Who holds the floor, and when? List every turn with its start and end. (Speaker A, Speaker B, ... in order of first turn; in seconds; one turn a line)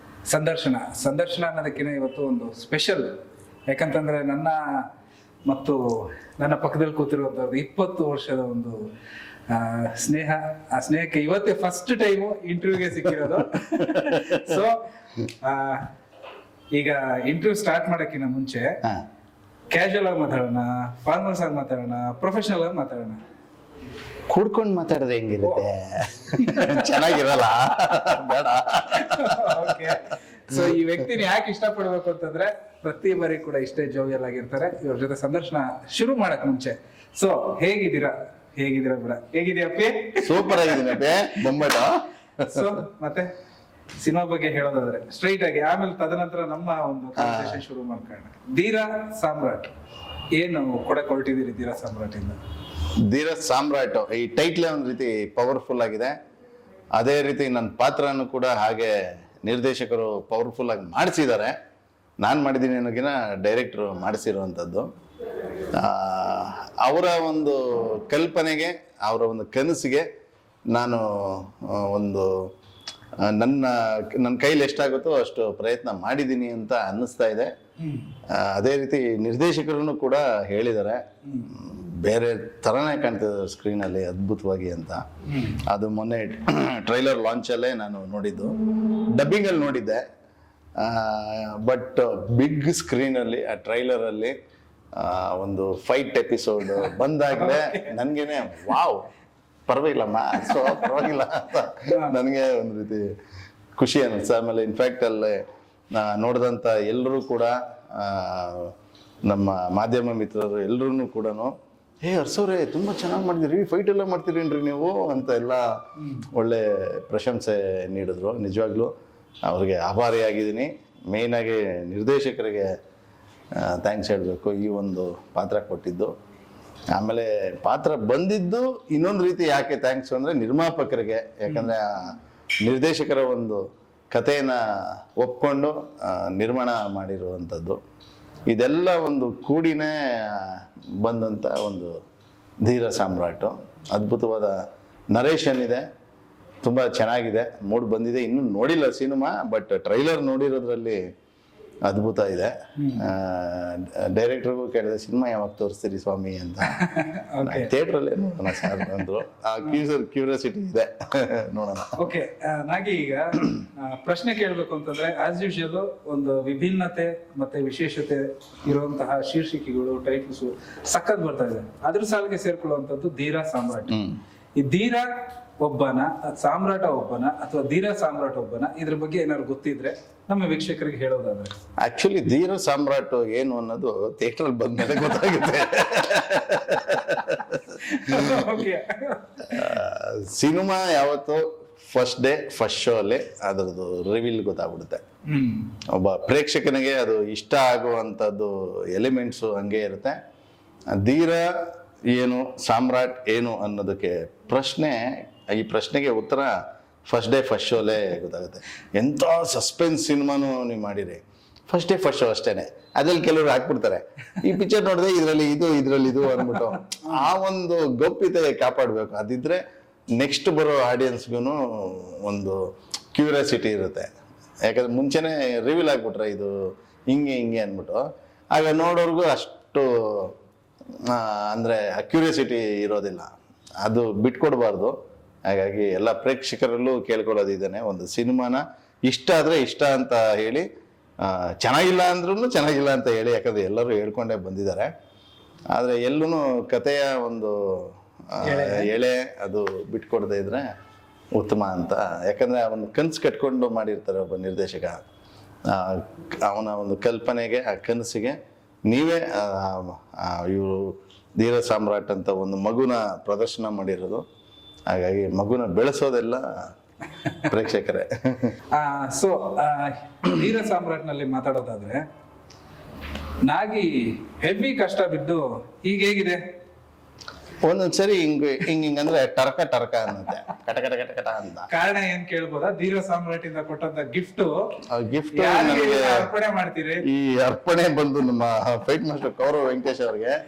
Speaker A: 0.3-3.1
Speaker A: 3.7-4.8
Speaker A: 5.5-8.8
Speaker A: 9.5-14.8
Speaker B: 13.8-14.6
Speaker A: 15.4-15.9
Speaker A: 16.8-18.8
Speaker A: 19.7-23.2
Speaker B: 24.3-30.0
Speaker A: 26.4-27.2
Speaker A: 28.9-41.7
Speaker B: 30.5-30.8
Speaker B: 40.2-42.8
Speaker A: 42.5-43.3
Speaker A: 44.0-49.7
Speaker B: 47.2-47.6
Speaker A: 50.4-52.4
Speaker B: 53.1-56.2
Speaker B: 57.0-58.9
Speaker B: 59.5-61.5
Speaker B: 62.2-64.9
Speaker B: 65.7-70.1
Speaker B: 70.7-72.3
Speaker B: 73.2-77.5
Speaker A: 77.8-78.1
Speaker B: 78.3-85.0
Speaker A: 81.2-81.5
Speaker A: 85.3-85.6
Speaker B: 85.6-90.0
Speaker B: 90.8-94.4
Speaker B: 94.9-99.1
Speaker A: 97.3-97.9
Speaker B: 99.7-103.1
Speaker A: 101.9-102.2
Speaker B: 103.8-105.4
Speaker B: 105.9-108.7
Speaker B: 109.3-115.6
Speaker A: 116.0-116.3
Speaker B: 116.3-118.9
Speaker B: 119.5-122.7
Speaker B: 123.6-126.1
Speaker B: 126.9-137.8
Speaker B: 138.5-141.9
Speaker B: 142.6-144.6
Speaker B: 145.1-145.8
Speaker B: 146.6-151.0
Speaker B: 151.9-156.8
Speaker A: 152.8-153.1
Speaker A: 156.7-157.7
Speaker B: 157.4-162.0
Speaker A: 158.5-159.1
Speaker A: 162.0-174.0
Speaker B: 173.9-174.2
Speaker A: 174.6-175.1
Speaker A: 175.6-181.5
Speaker B: 181.8-188.6
Speaker A: 186.8-189.7
Speaker B: 189.5-195.0
Speaker A: 195.3-195.7
Speaker B: 195.9-200.2
Speaker B: 200.9-201.5
Speaker B: 202.1-206.5
Speaker B: 207.1-219.6
Speaker A: 216.5-217.2
Speaker B: 220.2-222.6
Speaker B: 223.1-224.1
Speaker B: 224.7-226.5
Speaker B: 227.1-230.3
Speaker B: 231.0-233.3
Speaker B: 233.8-235.0
Speaker B: 235.5-240.7
Speaker B: 241.2-244.9
Speaker B: 245.7-250.7
Speaker A: 248.4-248.9
Speaker B: 251.4-255.0
Speaker B: 255.7-264.2
Speaker B: 264.9-266.5
Speaker B: 267.4-268.6
Speaker A: 268.7-272.0
Speaker A: 273.4-276.4
Speaker B: 277.6-281.7
Speaker A: 281.7-284.6
Speaker B: 284.9-286.3
Speaker A: 285.3-287.1
Speaker B: 287.1-290.4